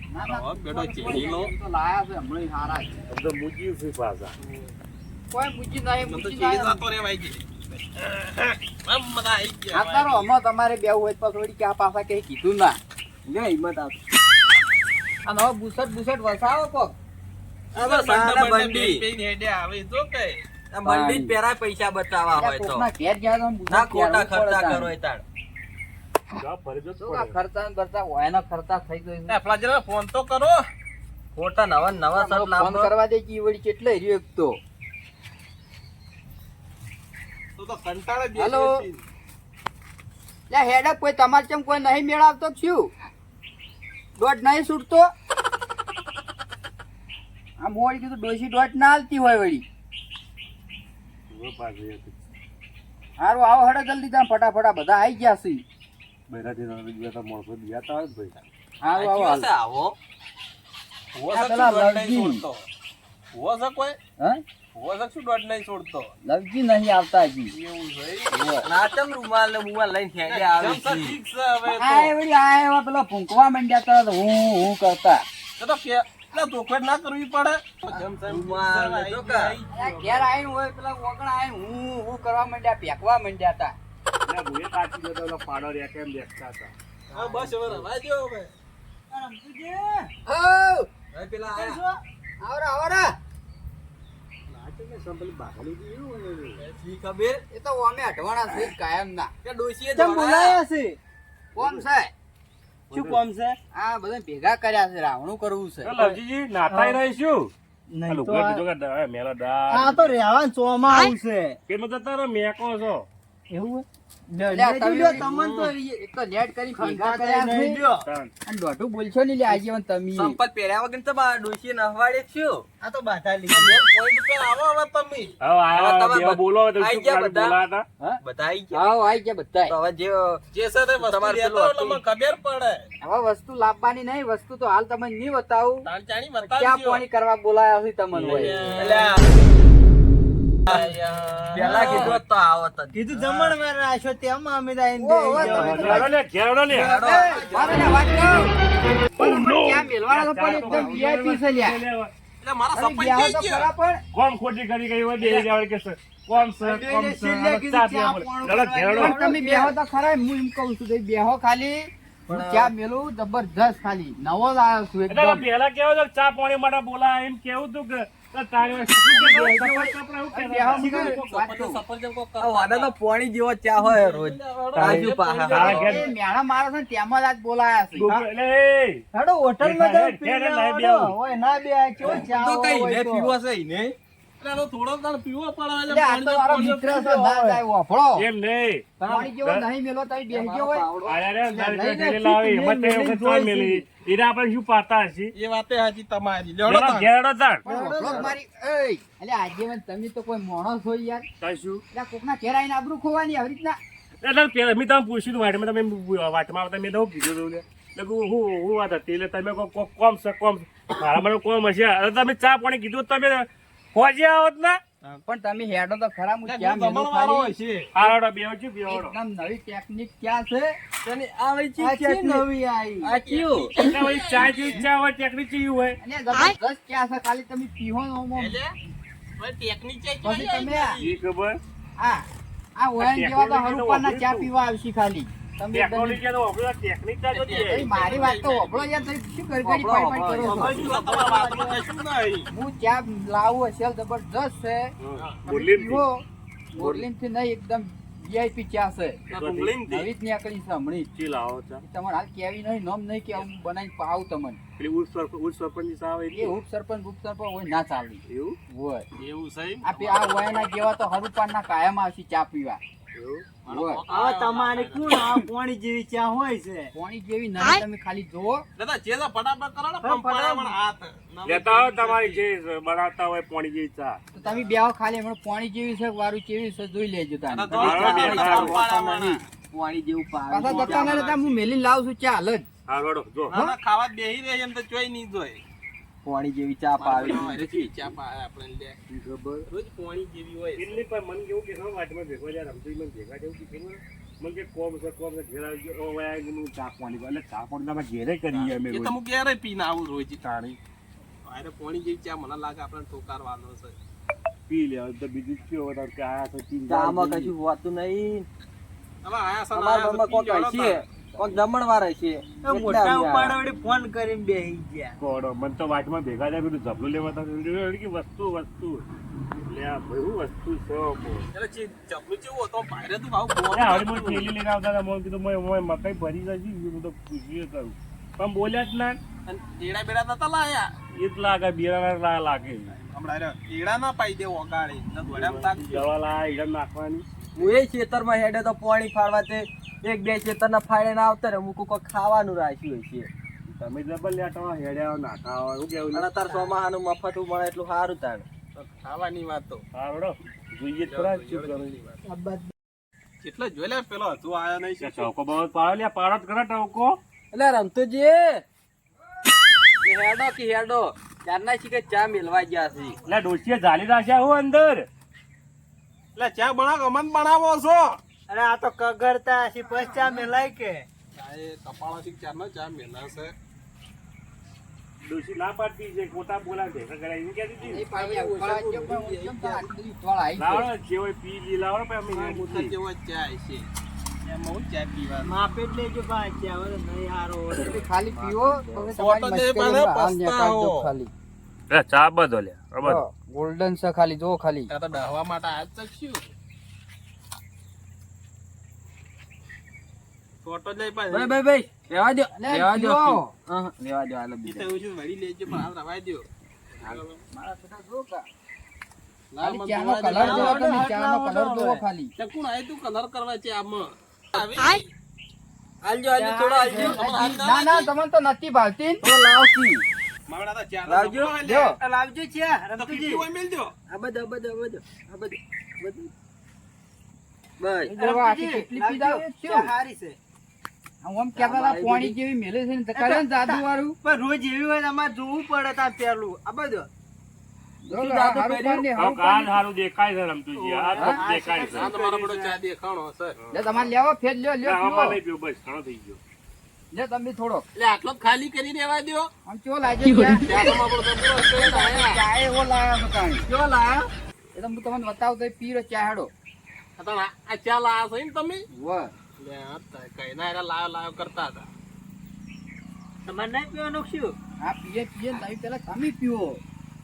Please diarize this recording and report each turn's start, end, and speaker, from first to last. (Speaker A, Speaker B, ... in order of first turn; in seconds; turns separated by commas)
Speaker A: 0.1-2.9, Speaker B: 0.3-1.5, Speaker C: 3.1-4.3, Speaker B: 4.4-4.7, Speaker A: 5.3-6.8, Speaker B: 6.0-10.3, Speaker A: 9.7-12.8, Speaker D: 13.3-14.0, Speaker A: 15.2-17.0, Speaker B: 17.7-20.4, Speaker D: 17.8-19.1, Speaker D: 20.7-22.9, Speaker A: 20.9-21.4, Speaker A: 22.4-24.9, Speaker D: 23.7-25.2, Speaker C: 26.4-27.4, Speaker A: 27.0-29.4, Speaker B: 29.3-30.7, Speaker D: 31.4-32.9, Speaker A: 32.1-34.6, Speaker B: 37.6-39.0, Speaker A: 38.4-38.7, Speaker A: 40.5-42.9, Speaker A: 44.2-45.1, Speaker A: 47.6-49.6, Speaker C: 51.3-52.2, Speaker A: 53.2-55.6, Speaker C: 56.3-58.3, Speaker A: 58.8-59.5, Speaker D: 59.0-60.0, Speaker B: 61.1-62.6, Speaker A: 61.3-62.4, Speaker B: 63.3-64.0, Speaker B: 64.8-66.1, Speaker A: 66.2-67.5, Speaker B: 67.5-68.6, Speaker A: 68.3-68.7, Speaker D: 68.6-71.2, Speaker B: 70.3-72.1, Speaker A: 71.7-75.2, Speaker B: 75.6-80.3, Speaker D: 78.2-79.6, Speaker A: 79.7-83.8, Speaker C: 84.3-86.7, Speaker B: 87.1-88.5, Speaker E: 87.1-87.5, Speaker E: 89.1-90.1, Speaker A: 90.3-90.9, Speaker D: 91.1-91.8, Speaker E: 91.5-92.0, Speaker A: 92.4-93.2, Speaker C: 94.5-96.7, Speaker D: 96.6-97.4, Speaker A: 97.5-99.3, Speaker D: 99.5-100.6, Speaker E: 100.0-101.0, Speaker A: 101.6-102.1, Speaker C: 101.6-101.8, Speaker C: 102.9-103.2, Speaker E: 102.9-103.6, Speaker A: 103.7-106.2, Speaker C: 105.8-107.5, Speaker E: 106.7-107.0, Speaker E: 107.9-108.6, Speaker C: 108.1-110.2, Speaker E: 109.7-111.6, Speaker C: 111.7-113.1, Speaker E: 113.5-115.8, Speaker A: 114.5-115.2, Speaker D: 115.1-115.7, Speaker A: 115.8-117.8, Speaker E: 116.8-118.0, Speaker C: 118.1-118.3, Speaker A: 118.5-120.4, Speaker D: 119.5-122.7, Speaker E: 122.8-123.8, Speaker B: 123.5-125.4, Speaker C: 125.4-127.9, Speaker D: 125.7-127.6, Speaker D: 128.2-128.8, Speaker A: 128.7-129.8, Speaker D: 129.7-130.4, Speaker B: 130.5-132.9, Speaker D: 131.0-132.0, Speaker A: 133.0-135.9, Speaker B: 135.8-137.0, Speaker A: 136.5-138.8, Speaker B: 138.2-139.2, Speaker C: 138.3-138.6, Speaker D: 138.8-139.3, Speaker B: 140.7-142.2, Speaker D: 141.5-143.1, Speaker E: 142.9-146.1, Speaker B: 143.2-143.5, Speaker A: 145.0-146.1, Speaker C: 145.4-147.0, Speaker D: 146.7-147.8, Speaker A: 147.0-148.6, Speaker B: 147.3-148.0, Speaker A: 149.2-151.8, Speaker C: 150.1-152.1, Speaker B: 152.4-153.7, Speaker A: 152.7-154.0, Speaker C: 154.1-159.2, Speaker E: 155.2-155.5, Speaker E: 156.6-159.8, Speaker A: 159.0-165.5, Speaker D: 162.3-162.7, Speaker C: 165.1-171.2, Speaker A: 169.1-171.8, Speaker B: 170.8-173.0, Speaker D: 172.4-175.9, Speaker B: 173.8-176.1, Speaker C: 174.8-176.1, Speaker A: 175.7-178.1, Speaker C: 177.9-179.0, Speaker E: 179.1-183.3, Speaker C: 179.6-181.2, Speaker D: 182.0-183.9, Speaker B: 184.4-187.6, Speaker A: 185.9-188.3, Speaker C: 188.2-189.6, Speaker E: 189.0-189.3, Speaker A: 189.1-190.9, Speaker D: 190.3-191.2, Speaker C: 191.1-195.3, Speaker E: 191.5-193.8, Speaker B: 195.3-197.1, Speaker C: 196.7-197.6, Speaker A: 197.7-201.3, Speaker E: 197.7-198.2, Speaker B: 198.0-198.3, Speaker C: 201.4-201.8, Speaker A: 201.9-203.8, Speaker C: 204.2-214.8, Speaker A: 215.3-217.5, Speaker B: 216.4-217.9, Speaker C: 217.9-219.2, Speaker A: 218.9-220.8, Speaker D: 221.0-222.5, Speaker E: 221.8-223.1, Speaker D: 223.0-223.7, Speaker B: 223.1-224.9, Speaker C: 223.8-226.0, Speaker A: 226.0-228.6, Speaker B: 228.3-228.8, Speaker B: 229.4-231.2, Speaker A: 230.2-231.0, Speaker C: 231.0-231.6, Speaker A: 232.0-236.2, Speaker C: 233.0-234.5, Speaker C: 235.7-237.9, Speaker B: 237.3-239.1, Speaker A: 237.6-240.7, Speaker D: 239.6-240.7, Speaker B: 240.5-242.5, Speaker E: 240.5-241.8, Speaker A: 242.5-244.9, Speaker C: 245.0-246.1, Speaker B: 245.2-245.4, Speaker A: 245.5-246.2, Speaker A: 246.7-249.2, Speaker D: 246.8-247.1, Speaker B: 249.3-250.1, Speaker C: 249.3-249.8, Speaker A: 249.9-251.1, Speaker C: 251.2-251.8, Speaker A: 251.8-254.6, Speaker C: 254.8-256.6, Speaker A: 256.4-259.1, Speaker C: 258.3-258.6, Speaker B: 259.1-260.8, Speaker A: 259.8-262.8, Speaker C: 263.1-263.6, Speaker B: 263.6-265.4, Speaker A: 263.7-264.0, Speaker E: 264.1-266.9, Speaker A: 266.9-268.7, Speaker B: 268.8-272.4, Speaker E: 270.0-270.8, Speaker C: 271.5-274.2, Speaker A: 274.3-279.4, Speaker B: 274.4-274.8, Speaker B: 277.5-279.4, Speaker C: 277.8-278.8, Speaker D: 277.8-281.2, Speaker A: 280.5-282.7, Speaker B: 280.6-281.6, Speaker C: 282.9-283.6, Speaker B: 283.5-285.6, Speaker D: 286.2-288.0, Speaker B: 287.0-289.0, Speaker C: 287.2-287.5, Speaker C: 289.1-289.7, Speaker B: 289.7-291.0, Speaker C: 290.8-299.2, Speaker B: 298.5-300.4, Speaker C: 300.4-300.8, Speaker B: 301.4-304.0, Speaker C: 304.7-307.5, Speaker D: 306.9-308.5, Speaker B: 309.2-311.1, Speaker D: 309.7-313.6, Speaker E: 312.6-315.2, Speaker C: 315.2-319.0, Speaker C: 319.7-321.5, Speaker B: 321.5-324.5, Speaker C: 323.7-329.2, Speaker B: 329.5-330.9, Speaker C: 331.1-332.9, Speaker B: 332.9-336.1, Speaker C: 335.3-337.2, Speaker D: 337.6-343.3, Speaker C: 343.7-346.3, Speaker D: 346.1-348.5, Speaker B: 348.8-349.8, Speaker C: 349.9-351.9, Speaker B: 351.1-352.2, Speaker E: 352.2-352.7, Speaker B: 353.4-355.3, Speaker C: 355.0-357.2, Speaker D: 357.5-358.6, Speaker D: 360.0-363.2, Speaker C: 363.3-365.1, Speaker B: 366.4-368.2, Speaker E: 368.5-371.1, Speaker B: 371.3-373.6, Speaker C: 375.2-378.0, Speaker A: 377.8-380.9, Speaker B: 378.0-379.9, Speaker C: 380.6-382.9, Speaker B: 382.3-383.9, Speaker B: 384.4-385.6, Speaker E: 385.4-388.1, Speaker A: 387.8-391.3, Speaker B: 388.4-391.1, Speaker C: 391.9-393.2, Speaker A: 393.0-394.9, Speaker B: 394.9-396.5, Speaker B: 400.6-401.6, Speaker D: 401.3-404.9, Speaker A: 402.6-403.5, Speaker B: 404.6-407.4, Speaker A: 407.0-408.5, Speaker B: 409.5-410.9, Speaker A: 409.6-412.3, Speaker E: 410.4-412.0, Speaker B: 412.4-415.1, Speaker D: 416.0-417.2, Speaker E: 416.4-417.3, Speaker A: 416.9-419.2, Speaker B: 417.1-418.1, Speaker D: 419.2-420.0, Speaker B: 420.5-422.0, Speaker D: 421.1-421.6, Speaker A: 421.6-422.0, Speaker E: 422.0-423.4, Speaker B: 423.0-423.9, Speaker D: 424.1-426.3, Speaker D: 427.8-428.1, Speaker A: 428.1-429.9, Speaker E: 428.1-430.4, Speaker A: 431.2-434.2, Speaker D: 431.6-432.4, Speaker E: 433.1-437.1, Speaker A: 438.1-439.9, Speaker D: 438.1-439.1, Speaker C: 439.2-442.1, Speaker B: 440.8-441.2, Speaker E: 441.1-442.8, Speaker A: 441.2-441.4, Speaker B: 441.9-443.6, Speaker C: 443.6-444.0, Speaker A: 443.7-445.4, Speaker C: 444.8-446.4, Speaker A: 447.1-447.9, Speaker B: 447.9-449.5, Speaker A: 449.7-450.8, Speaker E: 450.4-450.9, Speaker B: 450.6-452.4, Speaker A: 451.7-454.2, Speaker A: 454.8-456.5, Speaker B: 457.2-458.9, Speaker A: 458.9-459.3, Speaker B: 459.6-461.9, Speaker E: 463.5-464.6, Speaker A: 464.8-466.8